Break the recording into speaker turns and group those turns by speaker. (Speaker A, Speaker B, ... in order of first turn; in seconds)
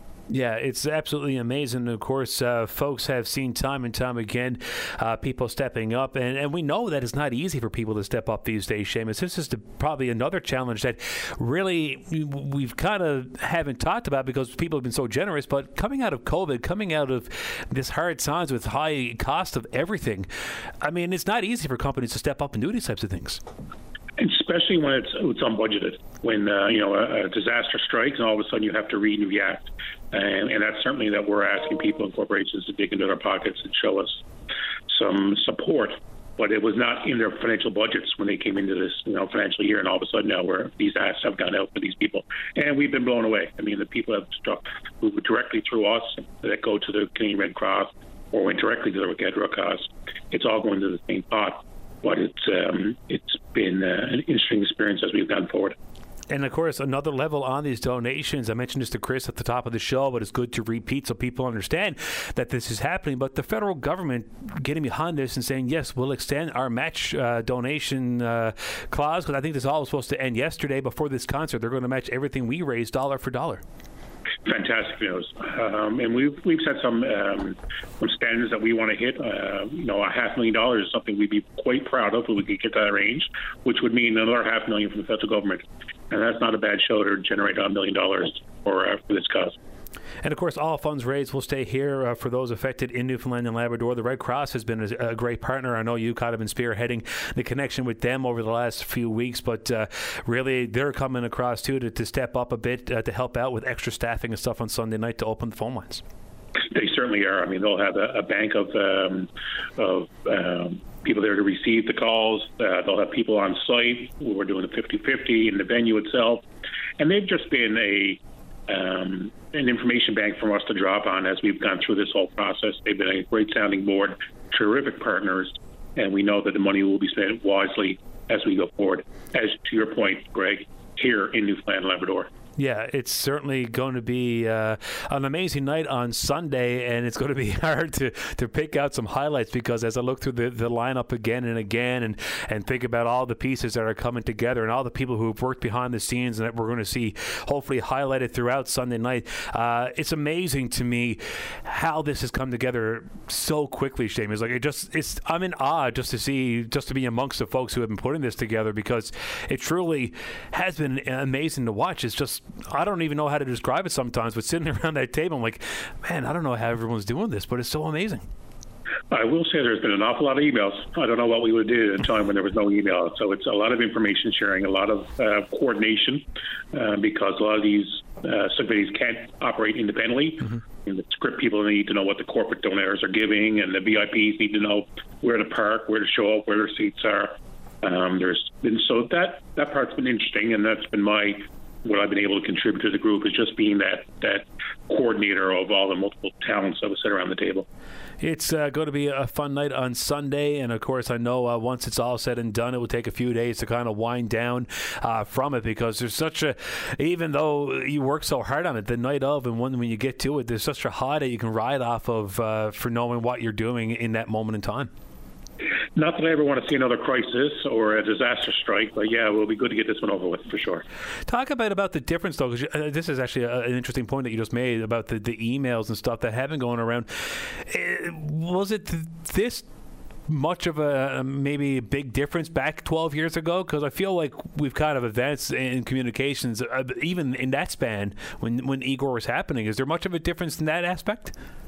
Speaker A: 0.3-20.3, 20.8-23.4, 56.3-73.6, 90.2-106.0, 132.6-168.2, 198.2-214.9, 221.3-229.6, 230.3-241.3
Speaker B: 24.2-34.2, 34.9-55.8, 74.4-89.5, 106.7-116.4, 117.0-132.3, 169.1-197.7, 215.9-220.8